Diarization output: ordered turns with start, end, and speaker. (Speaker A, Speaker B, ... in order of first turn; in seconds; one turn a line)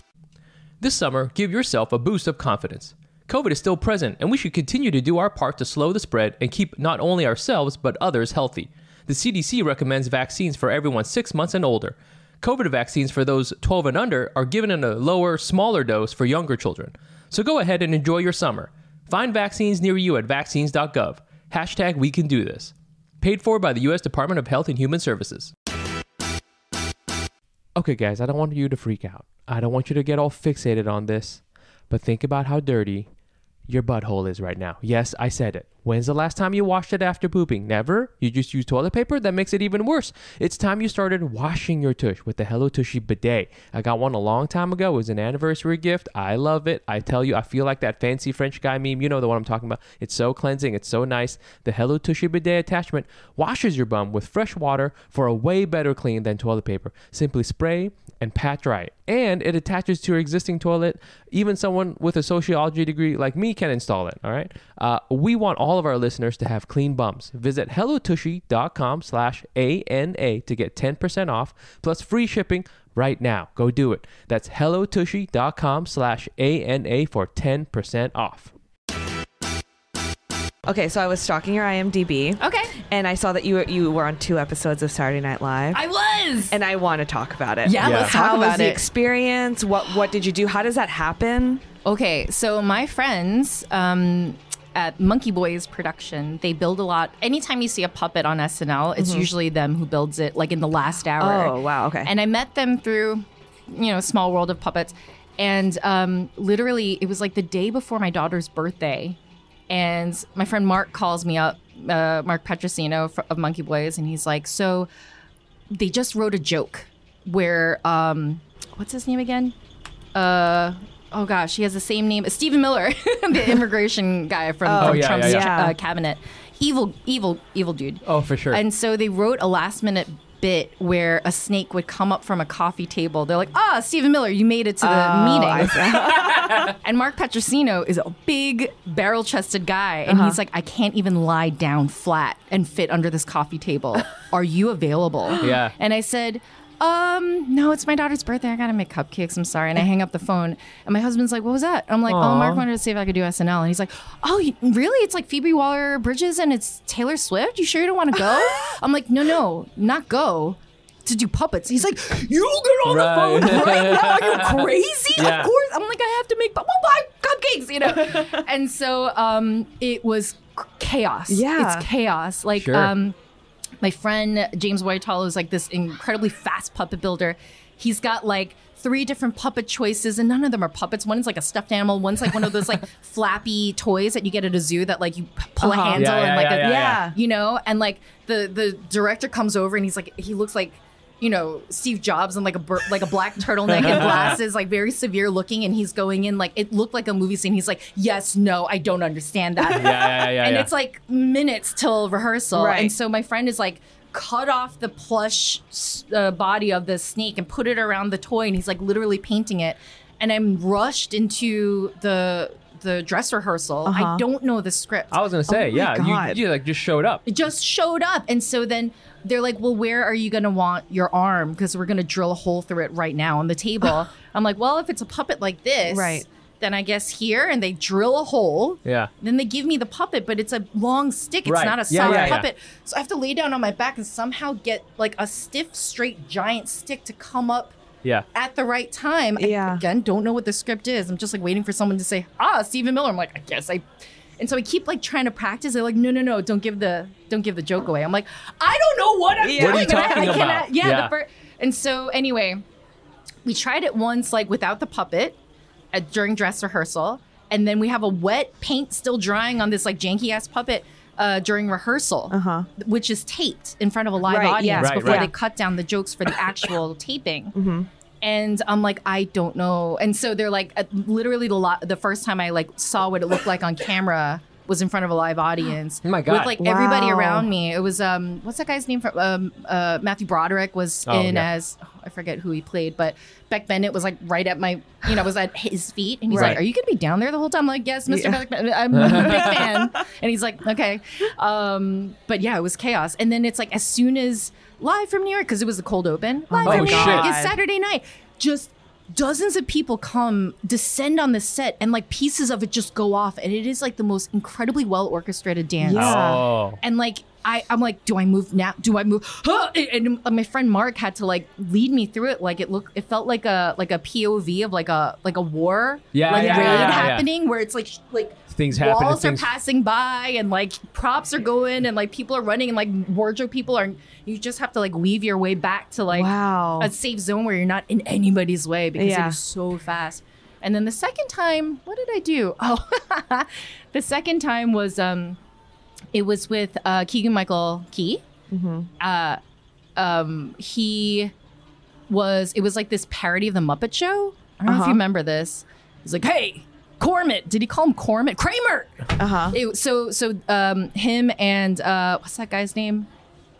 Speaker A: 0.8-25.5
Speaker A: 27.8-33.1
Speaker A: 33.7-78.5
Speaker B: 80.6-85.8
Speaker C: 82.4-82.7
Speaker C: 85.7-86.5
Speaker B: 86.5-91.6
Speaker C: 87.6-88.8
Speaker A: 87.8-88.1
Speaker C: 91.8-109.2
Speaker B: 99.0-99.3
Speaker B: 101.2-102.1
Speaker C: 109.7-114.9
Speaker C: 115.7-119.5
Speaker C: 120.1-173.1
Speaker B: 124.6-125.8
Speaker A: 124.8-125.5
Speaker A: 128.0-128.6
Speaker B: 134.8-136.7
Speaker A: 136.1-136.7
Speaker B: 140.1-140.4
Speaker A: 145.4-145.7
Speaker A: 152.1-152.6
Speaker A: 162.8-164.6
Speaker A: 165.1-165.5
Speaker B: 171.3-171.9
Speaker A: 172.6-172.9
Speaker C: 173.8-215.2
Speaker B: 185.6-187.2
Speaker A: 185.9-187.0
Speaker A: 193.7-194.4
Speaker A: 199.7-200.7
Speaker B: 202.5-202.9
Speaker B: 213.8-214.2
Speaker A: 215.1-217.5
Speaker B: 215.5-216.4
Speaker C: 217.2-237.7
Speaker B: 225.9-226.2
Speaker A: 231.4-232.5
Speaker B: 232.0-232.4
Speaker C: 238.3-243.8
Speaker B: 239.4-239.8
Speaker C: 244.4-252.6
Speaker B: 249.4-250.4
Speaker A: 249.5-251.1
Speaker C: 253.4-255.4
Speaker C: 255.9-267.5
Speaker B: 262.3-262.7
Speaker B: 264.2-265.3
Speaker A: 264.8-265.3
Speaker B: 267.5-267.9
Speaker C: 268.2-335.4
Speaker A: 276.0-276.6
Speaker B: 276.6-277.5
Speaker A: 281.1-281.5
Speaker B: 286.3-286.6
Speaker B: 288.1-288.4
Speaker A: 288.9-289.6
Speaker B: 289.0-289.9
Speaker B: 296.5-297.6
Speaker A: 296.6-297.3
Speaker B: 305.8-306.4
Speaker A: 305.9-306.8
Speaker A: 316.1-317.3
Speaker B: 316.3-317.1
Speaker A: 318.5-319.5
Speaker B: 326.1-326.9
Speaker B: 329.0-329.4
Speaker C: 336.1-338.2
Speaker B: 338.5-338.9
Speaker C: 339.0-339.4
Speaker C: 339.9-341.3
Speaker C: 342.1-353.1
Speaker B: 344.6-345.0
Speaker B: 349.2-349.6